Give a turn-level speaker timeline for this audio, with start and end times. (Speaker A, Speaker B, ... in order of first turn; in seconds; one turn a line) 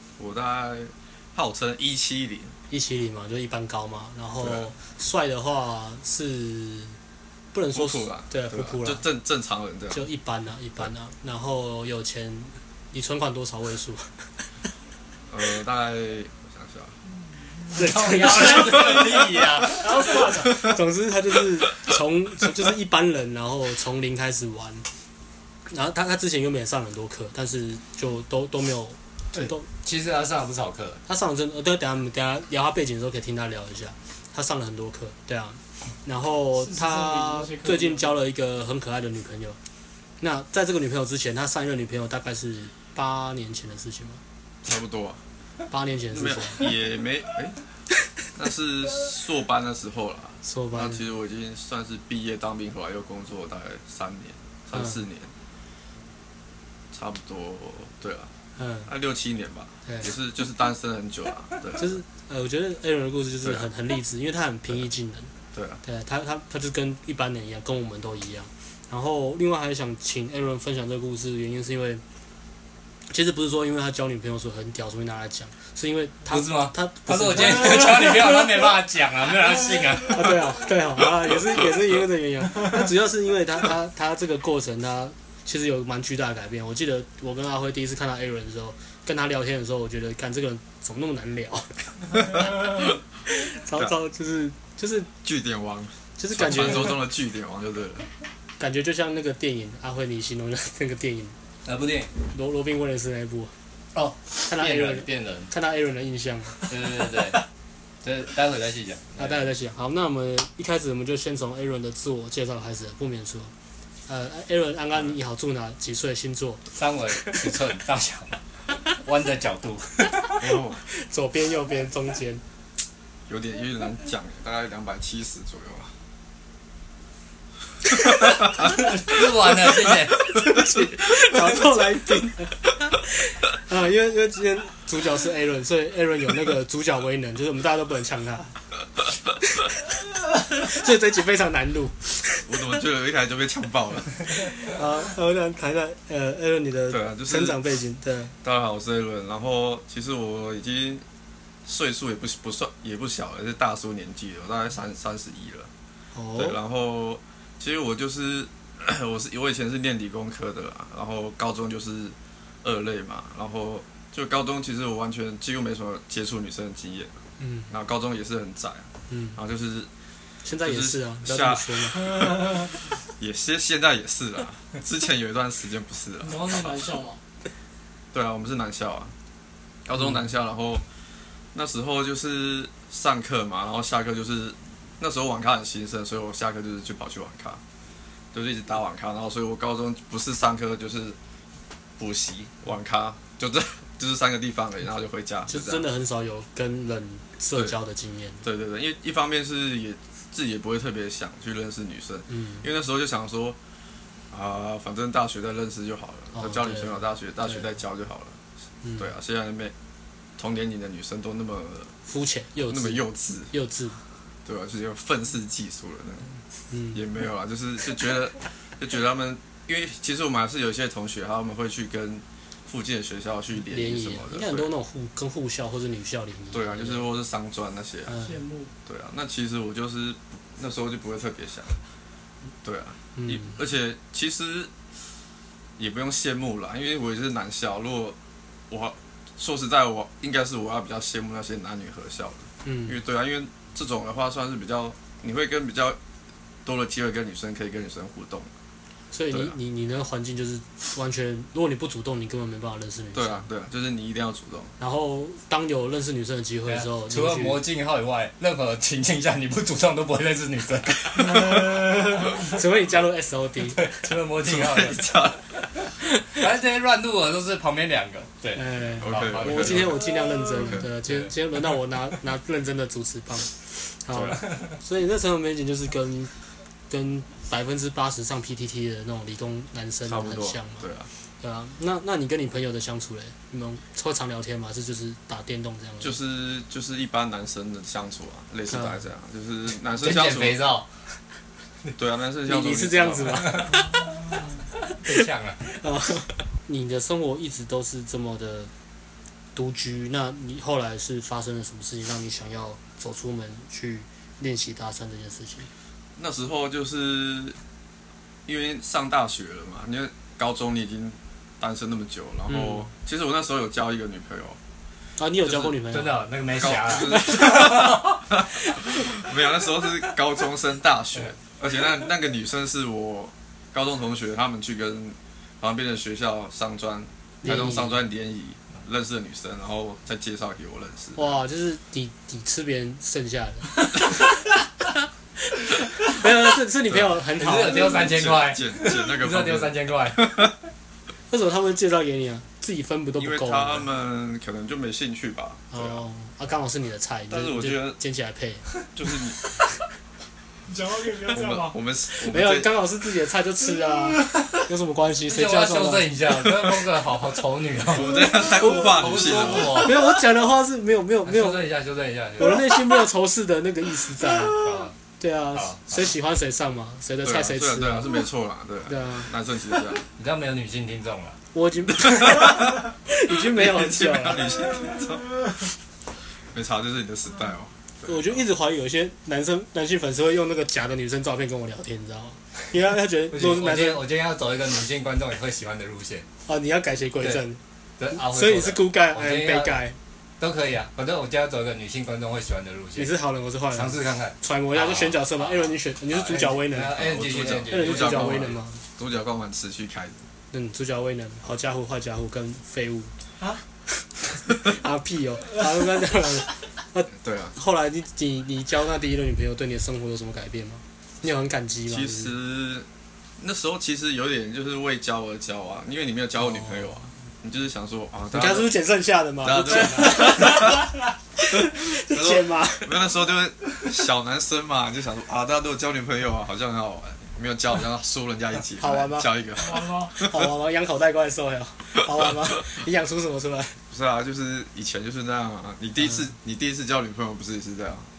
Speaker A: 0.2-2.5
Speaker B: 2.7-7.0
Speaker A: 4.4-4.7
Speaker B: 7.5-9.0
Speaker A: 7.7-10.1
Speaker B: 9.9-14.2
Speaker A: 15.3-16.9
Speaker C: 17.7-19.9
Speaker B: 17.7-19.1
Speaker D: 19.6-20.7
Speaker B: 20.3-24.9
Speaker B: 25.7-29.6
Speaker C: 29.3-31.0
Speaker B: 31.1-39.6
Speaker D: 36.5-38.1
Speaker B: 40.2-44.2
Speaker A: 44.6-45.2
Speaker B: 45.7-46.7
Speaker A: 46.1-47.6
Speaker A: 48.3-55.3
Speaker B: 50.4-51.0
Speaker A: 56.9-58.3
Speaker B: 58.6-58.9
Speaker A: 58.9-62.0
Speaker B: 59.9-60.1
Speaker B: 61.8-65.3
Speaker A: 63.4-63.7
Speaker A: 65.5-65.8
Speaker B: 65.8-72.0
Speaker B: 73.1-78.3
Speaker C: 76.3-80.5
Speaker B: 80.1-92.4
Speaker A: 92.6-92.9
Speaker B: 93.2-95.1
Speaker A: 95.2-98.1
Speaker B: 96.2-97.0
Speaker B: 98.6-101.3
Speaker C: 101.6-102.1
Speaker B: 102.3-103.5
Speaker C: 103.9-105.5
Speaker B: 104.4-106.6
Speaker C: 106.7-107.4
Speaker C: 108.0-109.5
Speaker B: 109.2-113.5
Speaker B: 114.1-116.6
Speaker C: 116.8-118.4
Speaker C: 118.9-120.4
Speaker A: 120.4-120.8
Speaker B: 120.9-122.4
Speaker A: 123.3-125.9
Speaker C: 129.0-130.3
Speaker B: 130.3-138.5
Speaker B: 139.4-142.5
Speaker A: 142.5-144.2
Speaker B: 144.7-148.3
Speaker A: 146.9-147.6
Speaker A: 148.4-151.0
Speaker A: 151.6-155.7
Speaker B: 156.1-156.6
Speaker A: 156.4-167.2
Speaker B: 167.4-167.7
Speaker A: 167.7-169.9
Speaker B: 169.1-169.4
Speaker B: 170.4-172.3
Speaker A: 170.6-176.9
Speaker D: 172.3-172.7
Speaker D: 176.2-177.2
Speaker A: 178.1-179.1
Speaker A: 179.8-180.8
Speaker A: 181.5-187.6
Speaker A: 188.3-191.2
Speaker A: 192.0-195.8
Speaker B: 195.5-198.4
Speaker A: 198.4-203.6
Speaker B: 202.3-202.6
Speaker A: 204.3-208.4
Speaker B: 206.3-207.6
Speaker A: 209.0-209.7
Speaker A: 210.4-211.9
Speaker B: 212.1-214.0
Speaker A: 212.7-213.5
Speaker A: 214.4-216.3
Speaker B: 216.7-217.0
Speaker A: 216.9-224.7
Speaker B: 223.7-227.1
Speaker A: 226.5-228.2
Speaker B: 228.1-228.3
Speaker D: 228.2-228.7
Speaker A: 228.8-231.8
Speaker A: 232.6-234.7
Speaker B: 233.2-233.6
Speaker A: 235.8-238.2
Speaker A: 238.7-246.0
Speaker B: 242.6-242.9
Speaker A: 246.6-248.5
Speaker B: 249.1-253.5
Speaker A: 253.1-254.7
Speaker B: 254.8-257.6
Speaker C: 256.7-261.8
Speaker B: 262.1-264.0
Speaker C: 263.8-265.3
Speaker A: 264.4-265.4
Speaker C: 266.2-271.3
Speaker B: 268.6-273.5
Speaker A: 269.0-270.0
Speaker A: 270.6-270.8
Speaker B: 274.0-276.3
Speaker A: 274.1-274.4
Speaker B: 276.9-280.9
Speaker A: 280.1-281.1
Speaker B: 281.4-286.2
Speaker A: 286.0-290.6
Speaker B: 288.7-289.0
Speaker C: 290.0-290.9
Speaker A: 291.9-293.7
Speaker B: 292.5-293.9
Speaker C: 295.0-295.6
Speaker B: 295.6-298.7
Speaker B: 299.5-305.7
Speaker A: 306.2-307.6
Speaker A: 308.4-314.6
Speaker B: 312.5-312.9
Speaker B: 315.2-316.2
Speaker A: 315.4-315.7
Speaker C: 315.9-318.1
Speaker A: 316.6-331.4
Speaker B: 327.4-328.0
Speaker B: 331.2-334.3
Speaker B: 335.6-338.1
Speaker A: 336.9-340.5
Speaker C: 337.3-340.5
Speaker B: 341.3-343.9
Speaker A: 343.2-346.0
Speaker B: 345.7-348.6
Speaker A: 347.3-348.0
Speaker A: 348.9-349.4
Speaker D: 350.6-351.8
Speaker A: 351.3-352.8
Speaker B: 352.2-356.1
Speaker C: 355.3-360.0
Speaker A: 357.9-359.9
Speaker B: 358.4-358.8
Speaker B: 359.6-361.6
Speaker C: 361.2-362.7
Speaker B: 362.4-364.6
Speaker C: 364.5-364.9
Speaker B: 365.2-368.1
Speaker C: 365.5-365.8
Speaker A: 367.2-370.0
Speaker B: 368.9-369.3
Speaker C: 370.1-371.4
Speaker B: 371.5-374.5
Speaker A: 372.1-372.8
Speaker A: 373.3-375.4
Speaker A: 376.5-378.4
Speaker B: 378.0-384.0
Speaker C: 383.3-386.2
Speaker B: 386.4-387.6
Speaker C: 388.0-389.8
Speaker B: 388.1-389.9
Speaker C: 390.4-393.1
Speaker B: 392.9-397.0
Speaker C: 393.7-398.5
Speaker A: 396.9-400.2
Speaker B: 397.7-398.8
Speaker B: 400.5-403.1
Speaker B: 404.2-412.3
Speaker A: 407.1-407.5
Speaker A: 411.9-412.9
Speaker A: 413.4-418.7
Speaker B: 418.3-423.0
Speaker A: 419.4-420.9
Speaker A: 421.6-430.4
Speaker B: 428.8-429.3
Speaker D: 429.6-430.1
Speaker B: 430.1-433.8
Speaker A: 433.9-438.1